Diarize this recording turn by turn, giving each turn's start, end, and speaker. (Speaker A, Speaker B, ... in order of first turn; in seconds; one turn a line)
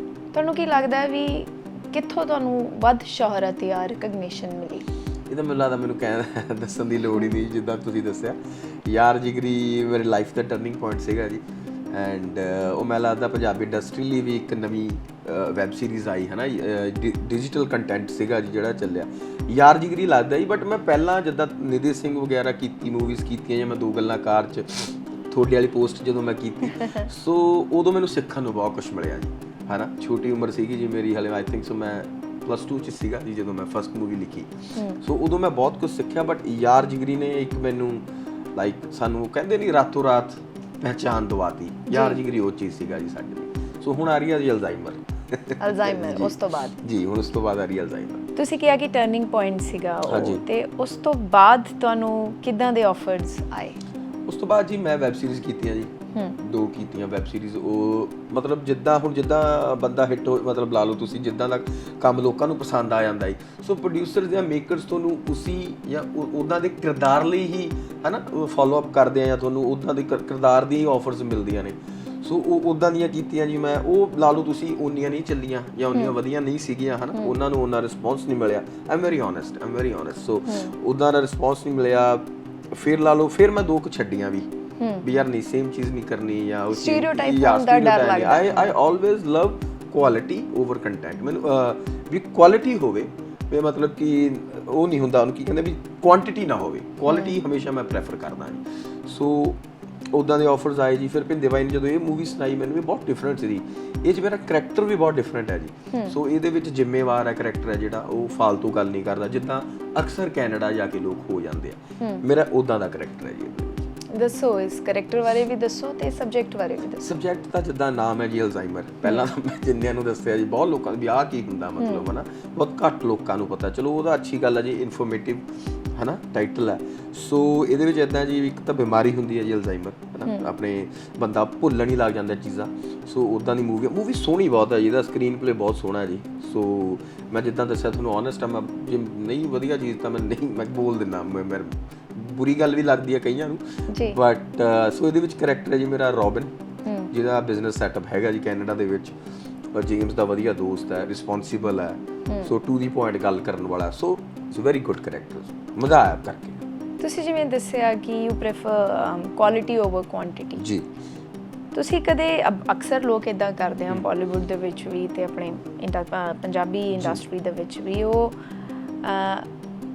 Speaker A: 0.3-4.9
Speaker B: 5.3-48.3
Speaker A: 34.7-35.0
Speaker A: 41.9-42.2
Speaker A: 45.6-46.8
Speaker A: 48.4-53.8
Speaker B: 50.1-50.4
Speaker B: 54.3-84.5
Speaker A: 80.5-80.7
Speaker A: 84.8-85.0
Speaker B: 85.0-99.6
Speaker A: 86.7-88.7
Speaker A: 97.1-97.3
Speaker B: 100.1-113.8
Speaker A: 114.1-117.2
Speaker B: 117.0-146.5
Speaker A: 121.8-122.1
Speaker A: 130.2-130.5
Speaker A: 143.9-144.2
Speaker A: 146.8-147.1
Speaker B: 147.1-149.2
Speaker B: 149.7-156.6
Speaker A: 152.3-152.5
Speaker A: 157.0-160.7
Speaker B: 160.6-160.9
Speaker A: 161.7-168.4
Speaker B: 166.9-167.2
Speaker A: 169.0-169.5